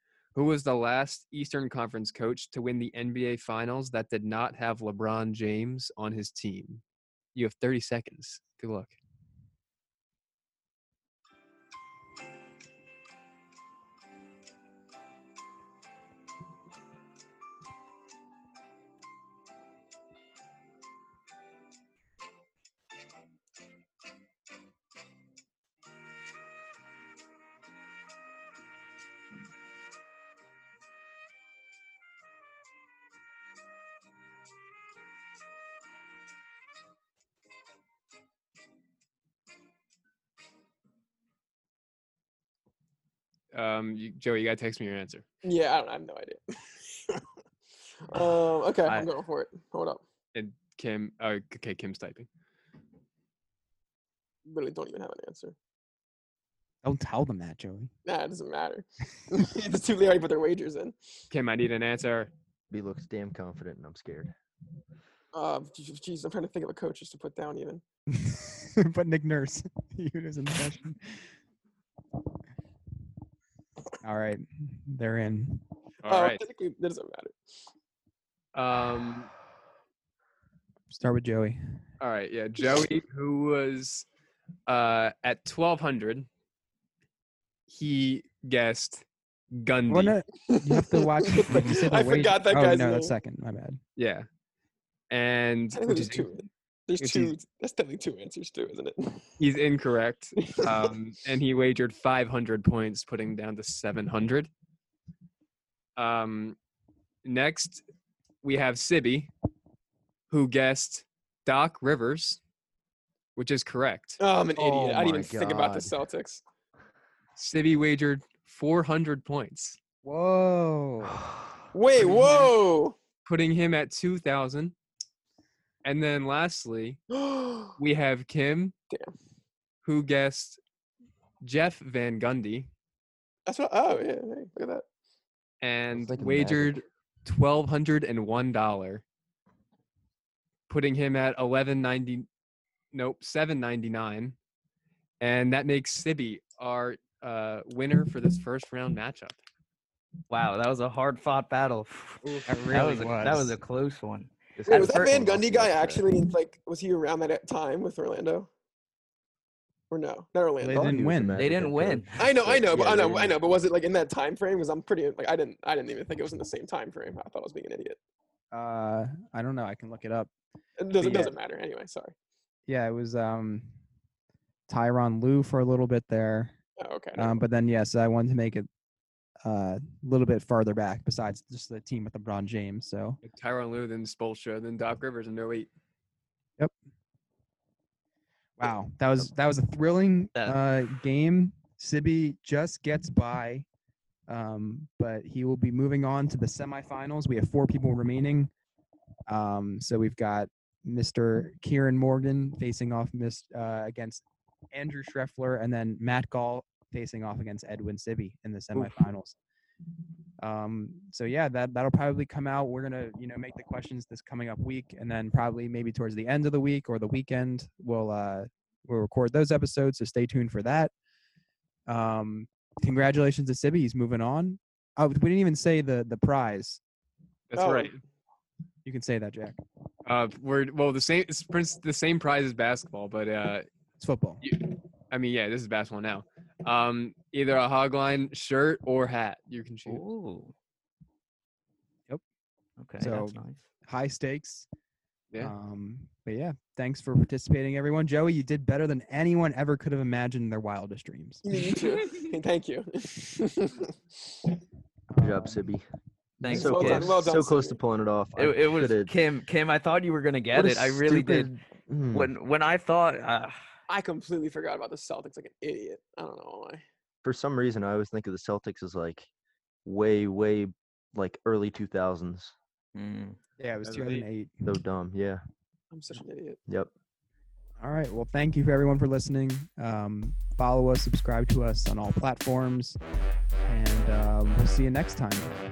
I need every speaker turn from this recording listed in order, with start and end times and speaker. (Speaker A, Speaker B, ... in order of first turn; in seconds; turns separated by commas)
Speaker A: 0.3-6.8, Speaker A: 7.3-8.9, Speaker A: 43.5-45.2, Speaker B: 45.4-47.2, Speaker B: 48.1-50.0, Speaker A: 50.3-52.3, Speaker B: 54.4-55.5, Speaker C: 56.8-57.9, Speaker B: 58.0-61.0, Speaker A: 61.3-62.3, Speaker D: 62.7-64.3, Speaker B: 65.3-67.8, Speaker C: 68.1-71.0, Speaker C: 74.0-75.6, Speaker A: 76.0-76.4, Speaker B: 76.0-77.4, Speaker A: 78.5-79.3, Speaker C: 80.9-81.6, Speaker A: 82.0-84.0, Speaker A: 84.7-86.3, Speaker A: 87.7-90.2, Speaker C: 89.9-93.8, Speaker B: 90.4-93.1, Speaker A: 94.0-94.3, Speaker A: 95.1-96.3, Speaker B: 95.7-99.3, Speaker A: 97.0-97.3, Speaker A: 99.4-104.5, Speaker B: 100.4-100.9, Speaker A: 106.0-106.6, Speaker A: 107.2-107.8, Speaker A: 108.4-109.3, Speaker A: 110.3-112.4, Speaker A: 113.3-114.2, Speaker B: 114.2-116.4, Speaker D: 114.6-116.0, Speaker A: 117.3-119.8, Speaker C: 120.0-121.2, Speaker B: 121.7-123.0, Speaker A: 122.0-122.5, Speaker A: 123.2-124.7, Speaker A: 125.8-127.0, Speaker B: 127.1-127.8, Speaker A: 127.8-128.7, Speaker A: 129.8-130.6, Speaker A: 131.4-132.7, Speaker B: 133.4-134.8, Speaker A: 135.6-139.0, Speaker D: 135.9-136.8, Speaker A: 140.7-142.3, Speaker A: 142.9-144.3, Speaker A: 145.2-149.3, Speaker E: 150.3-155.1, Speaker C: 152.4-153.6, Speaker D: 154.6-156.1, Speaker B: 154.7-158.5, Speaker B: 159.9-160.9, Speaker C: 160.6-161.4, Speaker D: 160.7-163.4, Speaker E: 161.4-162.2, Speaker B: 162.2-168.0, Speaker C: 168.5-170.3, Speaker B: 170.8-172.1, Speaker C: 171.0-171.3, Speaker C: 172.7-173.7, Speaker C: 174.7-176.5, Speaker B: 176.8-177.4, Speaker C: 177.2-178.7, Speaker C: 179.4-183.2, Speaker A: 183.2-185.7, Speaker C: 188.6-193.7, Speaker C: 194.3-198.5, Speaker C: 199.3-209.3, Speaker C: 210.4-220.9, Speaker C: 221.9-226.8, Speaker A: 227.5-228.0, Speaker B: 227.6-227.9, Speaker C: 228.8-229.6, Speaker A: 230.1-233.7, Speaker C: 234.0-234.4, Speaker A: 234.4-240.0, Speaker E: 239.8-240.5, Speaker E: 242.8-243.7, Speaker C: 243.0-244.7, Speaker C: 245.4-251.4, Speaker B: 251.4-253.9, Speaker C: 255.1-255.7, Speaker D: 255.2-255.8, Speaker E: 256.4-257.2, Speaker C: 256.4-256.7, Speaker D: 256.5-259.1, Speaker B: 256.5-257.8, Speaker E: 258.4-261.5, Speaker D: 260.5-262.3, Speaker E: 262.1-263.6, Speaker B: 263.9-266.8, Speaker D: 267.2-269.3, Speaker D: 269.8-272.5, Speaker E: 272.9-273.4, Speaker C: 273.6-274.7, Speaker A: 273.9-274.2, Speaker D: 274.6-275.4, Speaker B: 275.9-276.6, Speaker C: 277.8-283.0, Speaker C: 283.6-285.6